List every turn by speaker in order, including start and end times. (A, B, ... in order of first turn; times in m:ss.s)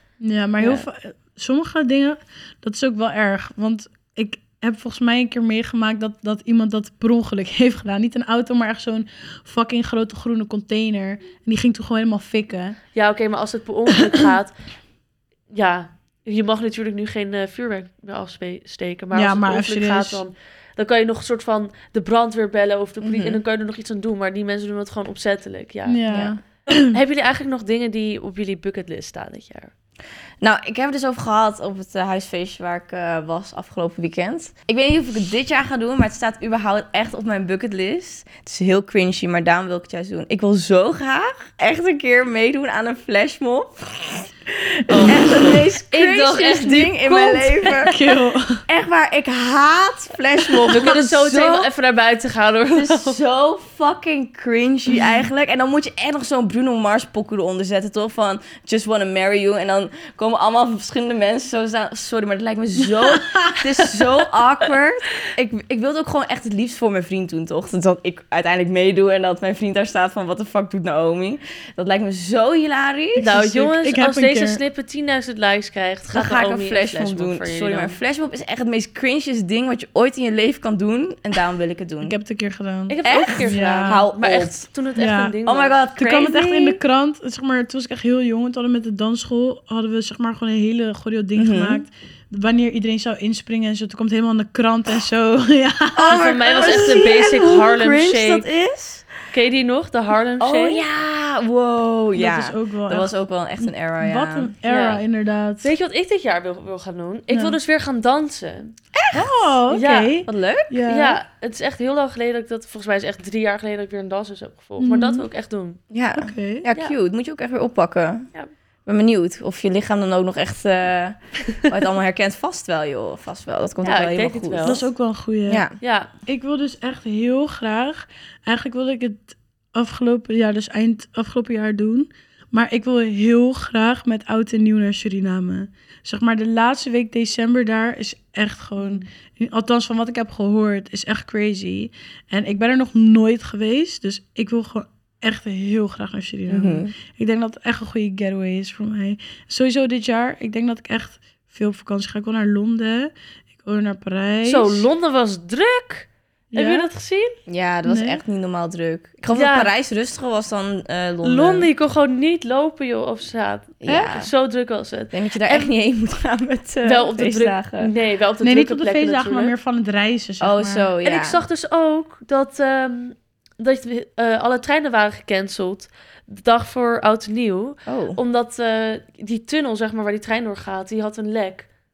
0:00.2-0:12.8 A
0:13.0-0:14.5 B
0:14.0-0:14.3 A
0:15.5-0:26.1 B
0:19.1-0:20.2 A
0:23.0-0:23.4 C
0:25.9-0:27.0 A
0:26.1-0:26.4 C
0:26.8-0:29.7 B
0:30.4-0:44.3 C
0:44.9-0:48.0 B
0:45.0-0:48.0 C
0:47.8-0:48.6 A
0:48.7-0:51.7 C
0:50.6-0:53.2 B
0:52.7-1:13.3 C
1:02.8-1:03.7 A
1:13.2-1:14.6 A
1:13.2-1:18.0 B
1:16.1-1:22.2 C
1:22.0-1:24.0 A
1:22.9-1:25.8 B
1:23.0-1:24.7 C
1:25.0-1:25.4 A
1:25.5-1:26.8 C
1:26.0-1:36.9 A
1:31.4-1:31.8 C
1:36.0-1:39.1 C
1:36.1-1:38.5 B
1:39.3-1:40.8 B
1:40.4-1:44.6 C
1:42.2-1:45.7 A
1:44.6-1:45.0 B
1:45.6-1:48.7 B
1:47.3-1:47.6 A
1:48.9-1:49.6 C
1:49.1-1:51.2 A
1:49.7-1:50.2 B
1:50.3-1:50.8 C
1:50.9-1:55.8 B
1:54.8-1:55.3 A
1:55.9-1:58.3 C
1:56.2-1:56.6 A
1:58.9-2:04.8 C
2:03.8-2:04.8 B
2:04.6-2:05.6 A
2:05.5-2:05.8 C
2:05.8-2:06.1 B
2:06.3-2:34.9 A
2:18.8-2:19.0 B
2:26.5-2:26.9 C
2:34.4-2:37.4 B
2:36.5-2:36.9 A
2:37.5-2:41.7 C
2:37.9-2:38.2 A
2:39.3-2:39.7 B
2:41.2-2:45.7 B
2:43.8-2:44.3 C
2:45.1-2:47.9 C
2:46.8-2:49.5 B
2:48.4-2:50.9 A
2:50.4-2:51.4 C
2:51.0-3:01.7 B
2:57.9-2:58.2 C